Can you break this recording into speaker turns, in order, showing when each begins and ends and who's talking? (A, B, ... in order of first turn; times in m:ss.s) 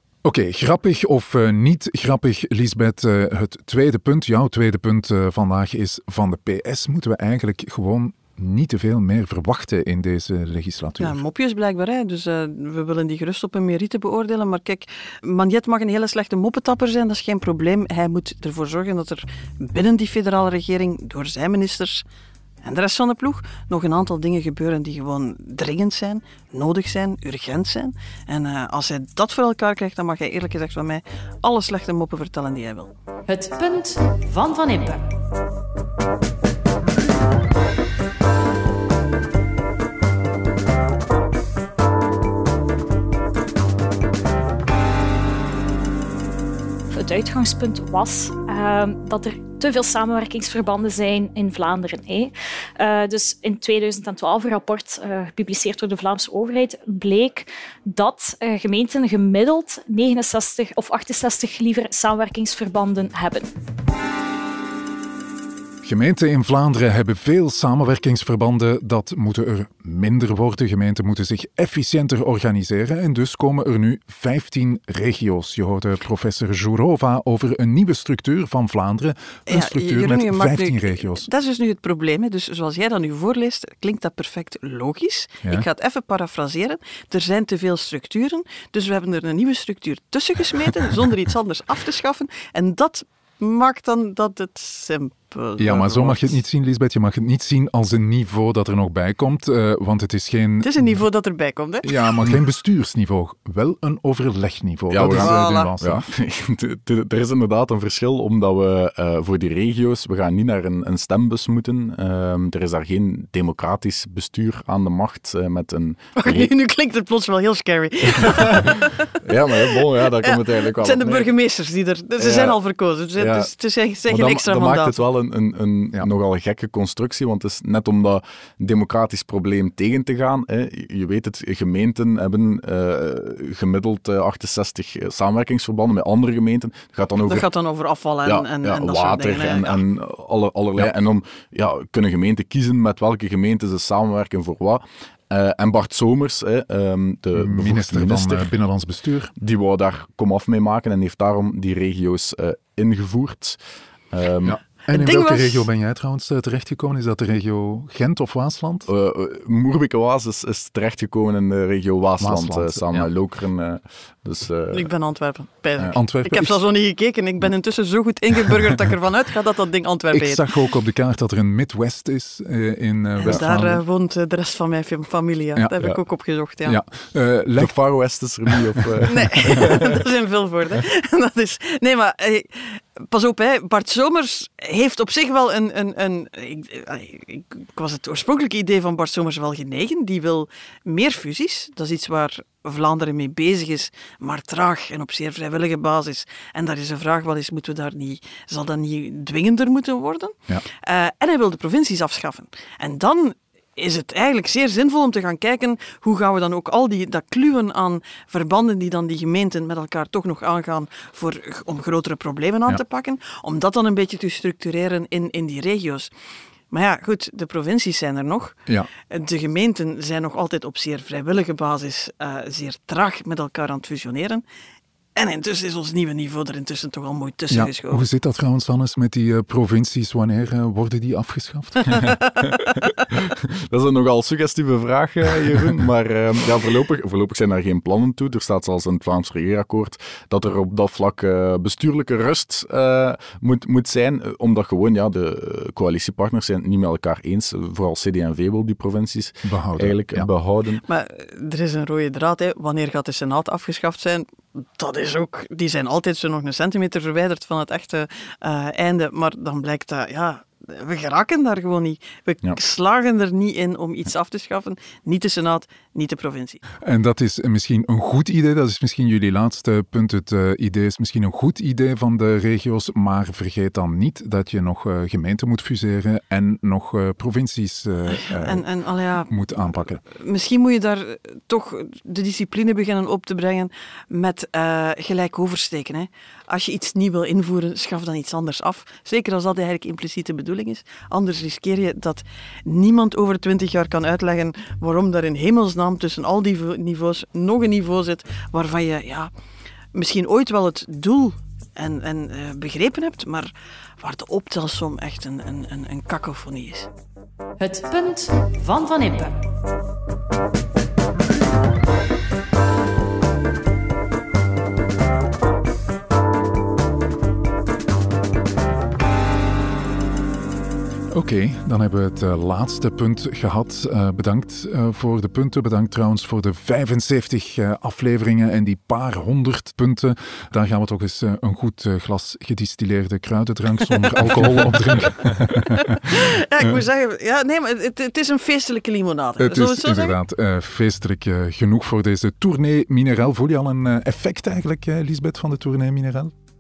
0:00.2-0:11.2 A
0:11.0-0:22.0 B
0:22.6-0:32.9 B
0:33.3-0:35.0 C
0:46.9-1:03.5 D
1:05.8-1:21.3 A
1:19.5-1:36.4 B
1:35.6-1:41.0 A
1:40.6-1:42.2 B
1:41.8-1:46.0 A
1:44.9-1:56.5 E
1:45.1-1:45.7 B
1:56.2-1:59.1 B
1:58.2-1:58.7 E
1:59.2-2:01.3 E
1:59.7-2:05.0 B
2:02.2-2:02.6 E
2:03.2-2:03.5 E
2:04.1-2:17.5 E
2:17.2-2:19.8 B
2:18.3-2:28.5 E
2:27.4-2:29.3 A
2:29.4-2:33.6 E
2:34.1-2:34.6 E
2:34.4-2:38.9 A
2:34.9-2:35.7 B
2:38.9-2:44.9 E
2:42.2-2:43.1 A
2:44.7-2:50.4 B
2:45.9-2:46.6 A
2:50.1-2:53.8 A
2:53.2-2:56.8 B
2:56.6-2:57.8 A
2:57.6-3:00.0 E
2:58.5-2:58.8 A
2:59.1-3:36.1 B
3:36.7-3:38.6 B
3:39.1-3:44.4 B
3:45.2-3:48.0 B
3:47.5-3:52.1 A
3:53.1-4:10.8 E
4:09.4-4:10.3 A
4:10.9-4:26.6 B
4:26.8-4:38.7 A
4:38.1-4:59.3 B
4:39.3-4:40.0 A
4:59.9-5:06.9 B
5:07.6-5:09.3 C
5:21.1-5:36.0 A
5:35.8-5:40.2 B
5:39.4-5:46.3 A